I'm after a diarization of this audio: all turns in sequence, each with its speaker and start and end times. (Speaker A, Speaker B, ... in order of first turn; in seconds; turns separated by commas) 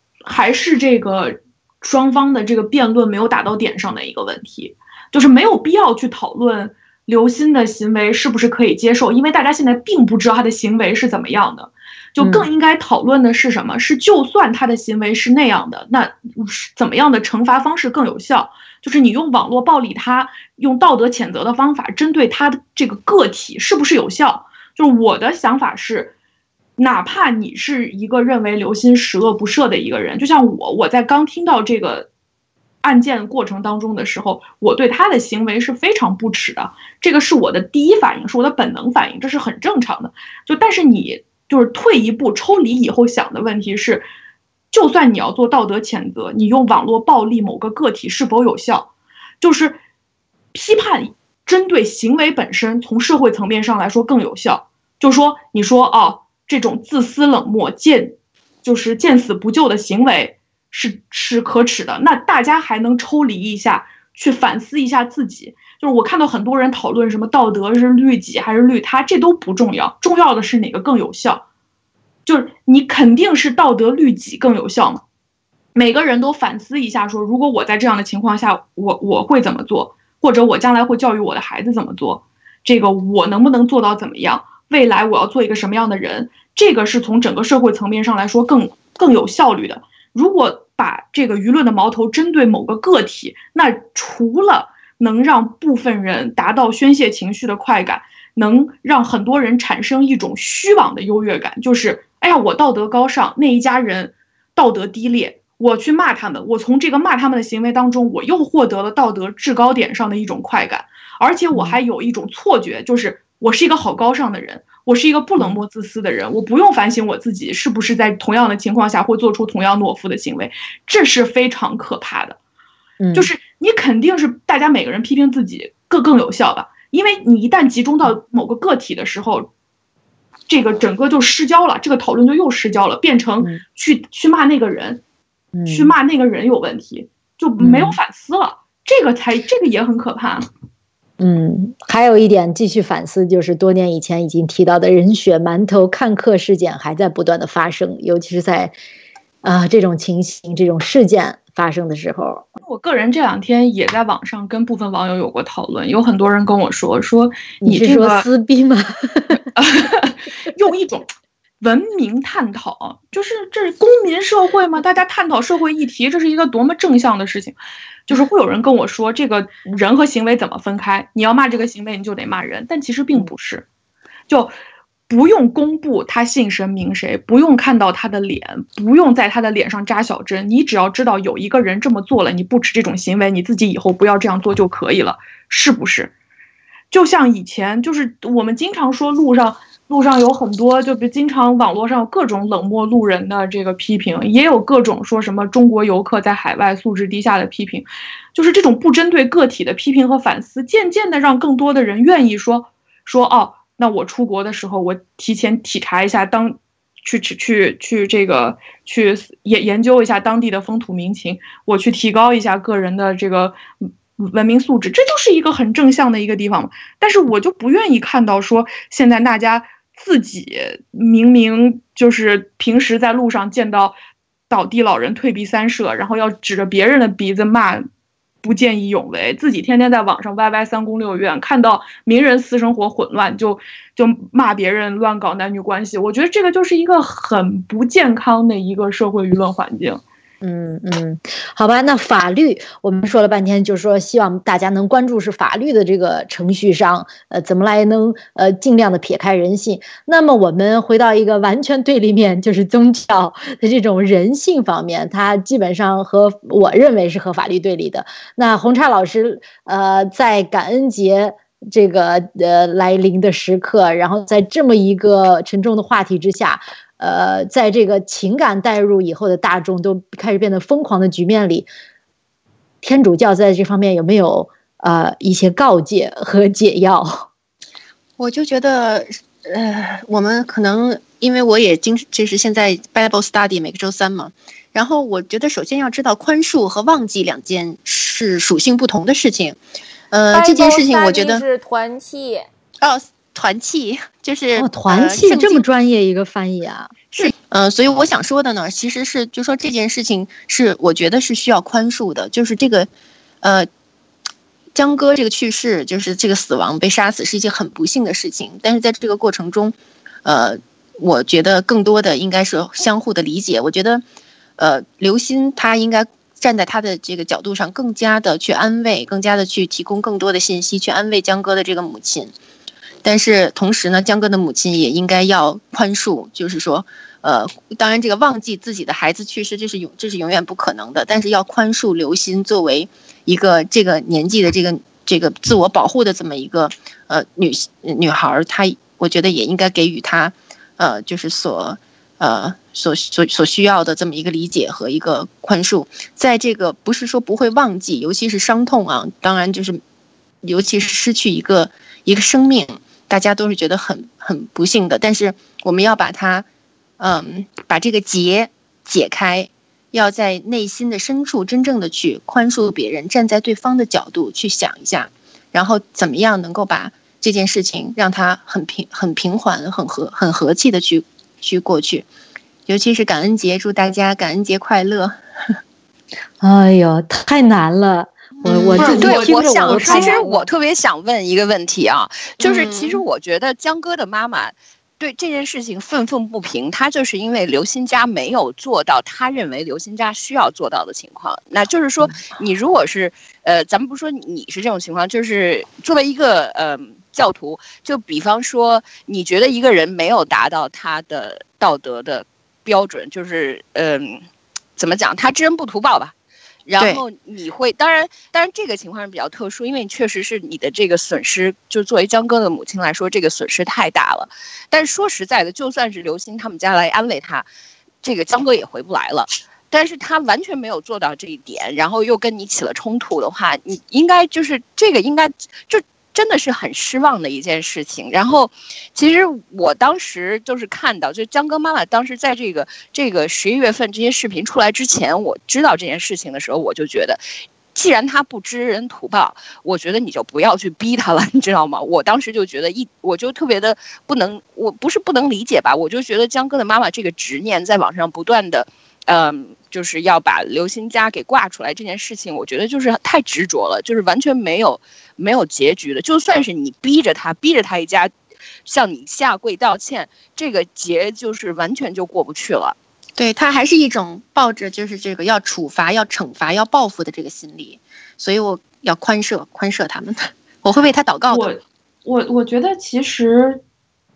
Speaker A: 0.2-26.1, Speaker B: 12.2-12.5, Speaker A: 26.8-32.1, Speaker A: 32.8-44.1, Speaker A: 44.7-48.9, Speaker A: 49.4-49.8, Speaker A: 50.5-71.4, Speaker A: 72.2-75.0, Speaker A: 75.7-122.4, Speaker B: 111.5-111.8, Speaker B: 123.0-123.3, Speaker A: 123.1-129.5, Speaker A: 130.5-135.0, Speaker B: 135.5-135.9, Speaker A: 135.7-140.5, Speaker B: 137.6-138.0, Speaker B: 141.2-148.8, Speaker B: 149.4-152.5, Speaker A: 152.6-158.3, Speaker B: 157.6-159.4, Speaker A: 159.6-173.7, Speaker A: 175.1-186.1, Speaker A: 186.9-223.9, Speaker A: 224.5-227.8, Speaker A: 228.4-240.0, Speaker B: 240.4-271.7, Speaker B: 272.8-277.3, Speaker C: 278.2-289.6, Speaker C: 290.1-291.4, Speaker D: 290.3-292.4, Speaker C: 292.8-295.6, Speaker B: 294.6-297.3, Speaker C: 297.1-302.9, Speaker C: 303.4-303.7, Speaker C: 304.7-314.0, Speaker C: 314.6-322.3, Speaker C: 323.0-349.8, Speaker C: 350.4-356.5, Speaker C: 357.0-372.1, Speaker C: 372.6-375.1, Speaker B: 376.4-380.5, Speaker C: 378.4-379.0, Speaker A: 378.8-380.2, Speaker E: 379.0-404.2, Speaker C: 382.4-383.0, Speaker E: 404.8-406.1, Speaker E: 406.6-417.4, Speaker E: 418.0-437.2, Speaker E: 437.7-458.1, Speaker E: 458.6-462.8, Speaker C: 463.2-471.5, Speaker A: 471.3-473.6